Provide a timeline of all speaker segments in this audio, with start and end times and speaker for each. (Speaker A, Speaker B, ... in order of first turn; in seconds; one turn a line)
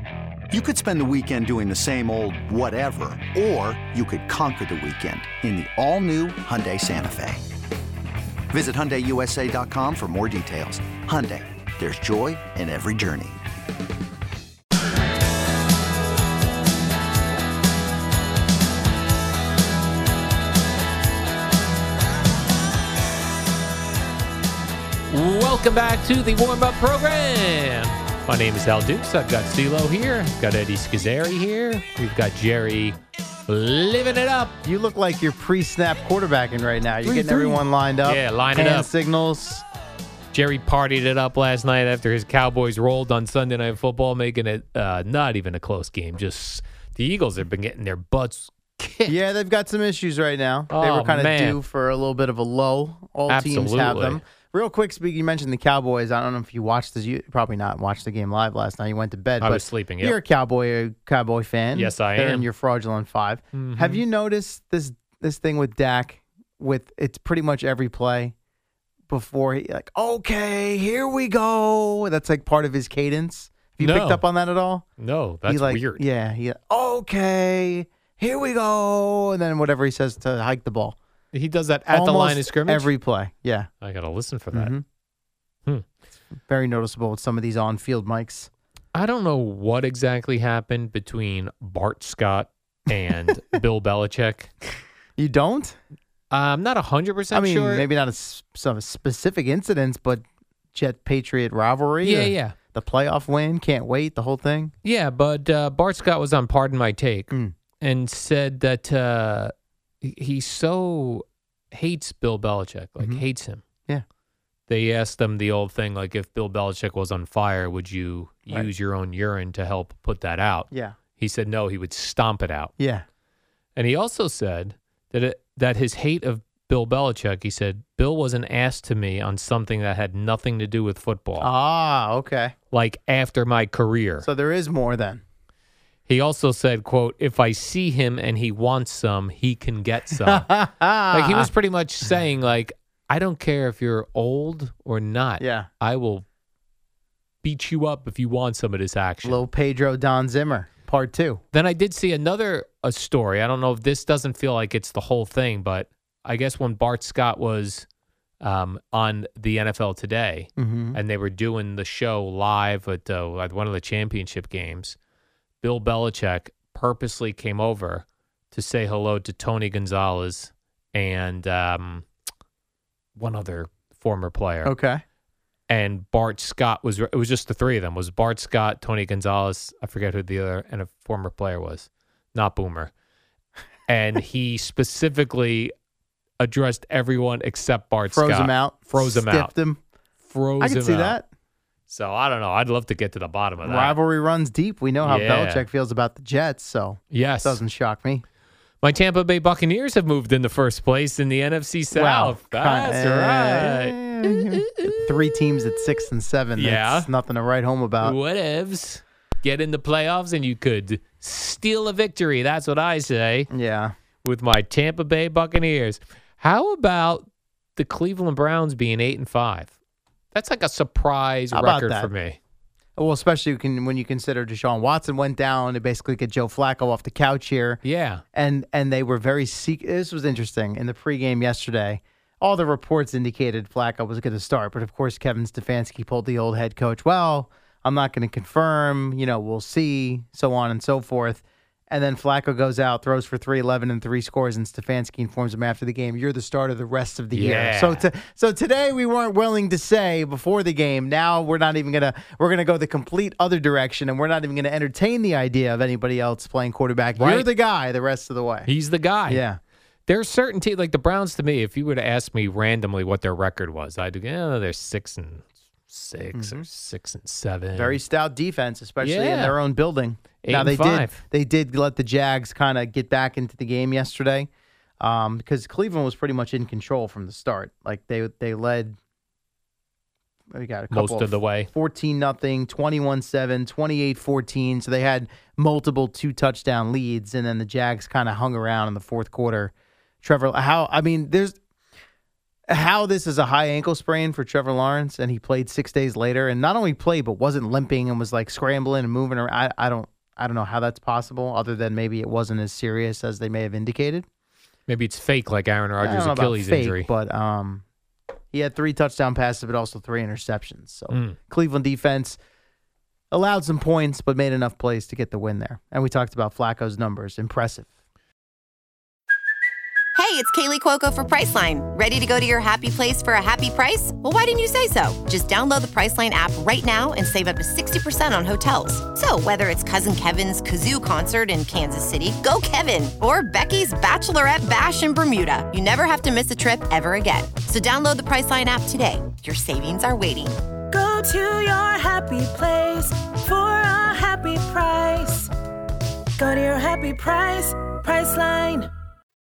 Speaker A: 0.5-7.4
Speaker A: 8.5-13.4
Speaker B: 25.1-34.5
Speaker C: 34.6-39.6
Speaker B: 37.0-38.9
Speaker B: 40.3-49.2
Speaker C: 49.1-68.3
Speaker B: 50.7-51.6
Speaker B: 53.3-54.2
Speaker B: 59.4-60.2
Speaker B: 61.7-62.5
Speaker B: 63.5-64.0
Speaker C: 69.1-74.8
Speaker B: 73.8-74.2
Speaker B: 75.0-76.0
Speaker C: 75.5-81.0
Speaker B: 81.3-82.9
Speaker C: 81.9-83.7
Speaker B: 83.8-84.8
Speaker C: 84.5-84.8
Speaker C: 86.5-88.5
Speaker B: 88.9-94.5
Speaker C: 95.2-95.8
Speaker B: 96.3-97.9
Speaker C: 97.3-104.7
Speaker B: 102.0-102.5
Speaker B: 104.8-107.3
Speaker B: 107.8-113.6
Speaker B: 114.7-122.7
Speaker C: 120.7-121.0
Speaker C: 122.8-123.0
Speaker B: 123.8-131.5
Speaker C: 131.4-132.5
Speaker B: 132.7-134.3
Speaker C: 134.2-135.2
Speaker B: 136.1-140.5
Speaker C: 140.2-141.5
Speaker B: 141.1-146.2
Speaker C: 145.4-145.7
Speaker B: 147.4-149.4
Speaker C: 149.2-151.4
Speaker B: 151.5-157.8
Speaker B: 158.4-165.0
Speaker C: 160.6-161.0
Speaker B: 165.6-172.1
Speaker B: 173.2-174.7
Speaker C: 174.6-175.0
Speaker B: 175.7-182.9
Speaker B: 183.9-185.7
Speaker B: 186.4-189.5
Speaker C: 188.1-189.8
Speaker B: 190.2-191.2
Speaker C: 190.6-191.3
Speaker B: 191.9-194.0
Speaker C: 193.6-198.2
Speaker B: 195.0-195.7
Speaker B: 197.1-197.6
Speaker B: 198.8-206.0
Speaker C: 201.9-208.2
Speaker B: 206.6-207.1
Speaker B: 208.0-213.5
Speaker C: 213.5-213.9
Speaker B: 214.2-217.2
Speaker B: 217.8-219.7
Speaker B: 220.3-222.4
Speaker C: 221.5-222.1
Speaker C: 222.9-227.8
Speaker B: 227.8-228.2
Speaker C: 228.3-258.7
Speaker B: 247.3-248.1
Speaker B: 257.1-257.5
Speaker B: 258.6-259.4
Speaker C: 259.3-259.6
Speaker B: 260.1-268.0
Speaker C: 266.3-266.6
Speaker C: 267.7-278.9
Speaker B: 269.0-269.6
Speaker B: 270.4-271.2
Speaker C: 280.5-291.6
Speaker B: 280.9-281.7
Speaker C: 292.7-304.2
Speaker B: 304.9-307.1
Speaker C: 306.0-307.8
Speaker C: 308.5-312.4
Speaker B: 311.1-311.4
Speaker C: 313.3-317.9
Speaker D: 320.1-340.6
Speaker E: 340.9-345.5
Speaker E: 346.4-348.9